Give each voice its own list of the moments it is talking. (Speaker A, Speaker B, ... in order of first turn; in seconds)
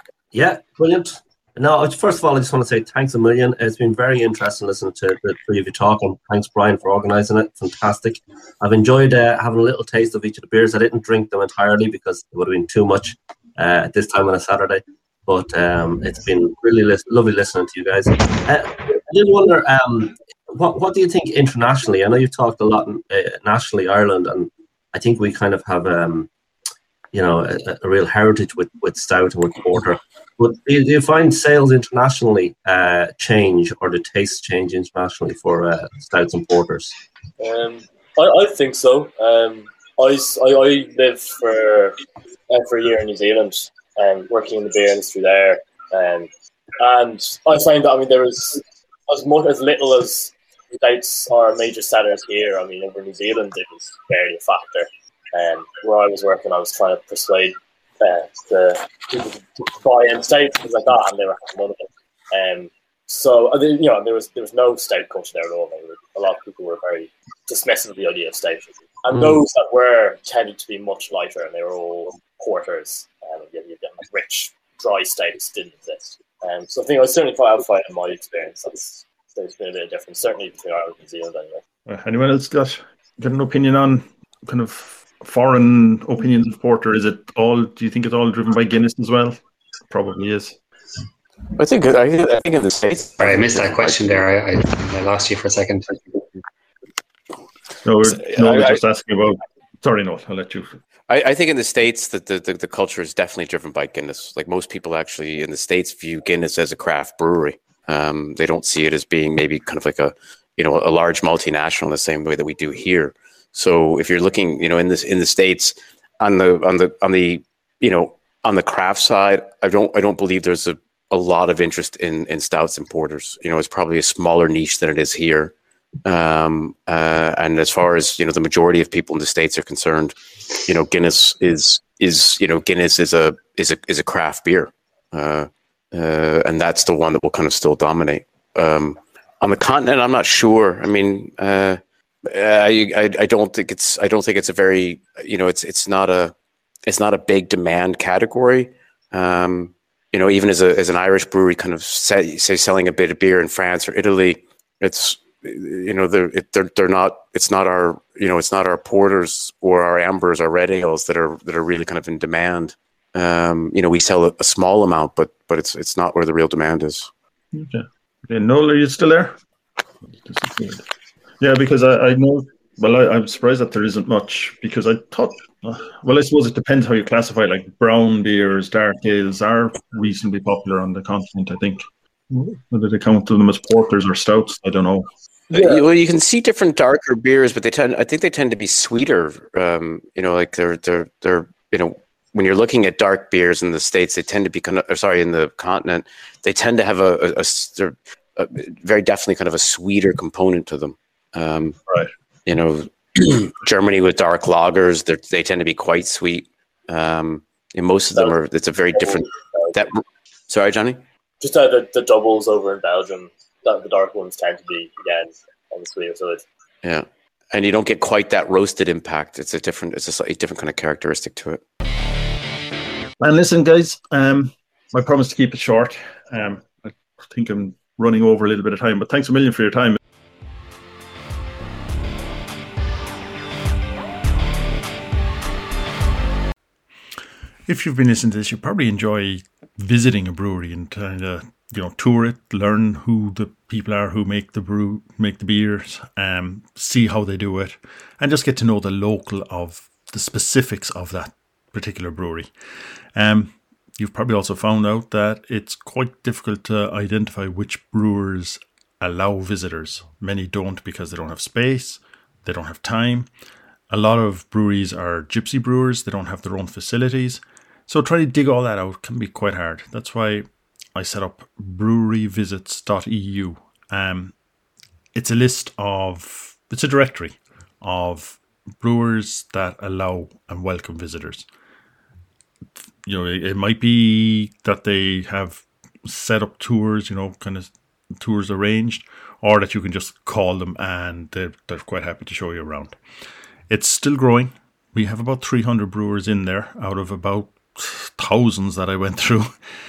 Speaker A: 0.3-26.3, 27.1-37.0
Speaker B: 37.4-42.0, 42.5-81.6, 185.5-185.8, 208.9-209.7, 211.4-216.4
Speaker C: 81.9-89.4, 89.9-90.6, 97.8-100.8, 167.5-169.4, 170.1-170.8, 171.4-185.1, 223.2-230.0, 237.7-252.5, 253.2-263.3, 263.9-274.4, 275.1-281.5, 283.1-293.0, 293.7-299.6
Speaker D: 91.6-94.2, 98.2-98.8, 101.1-125.5, 126.0-146.3, 146.9-167.1, 185.5-201.8, 202.5-211.0, 216.8-221.6
Speaker E: 93.2-96.0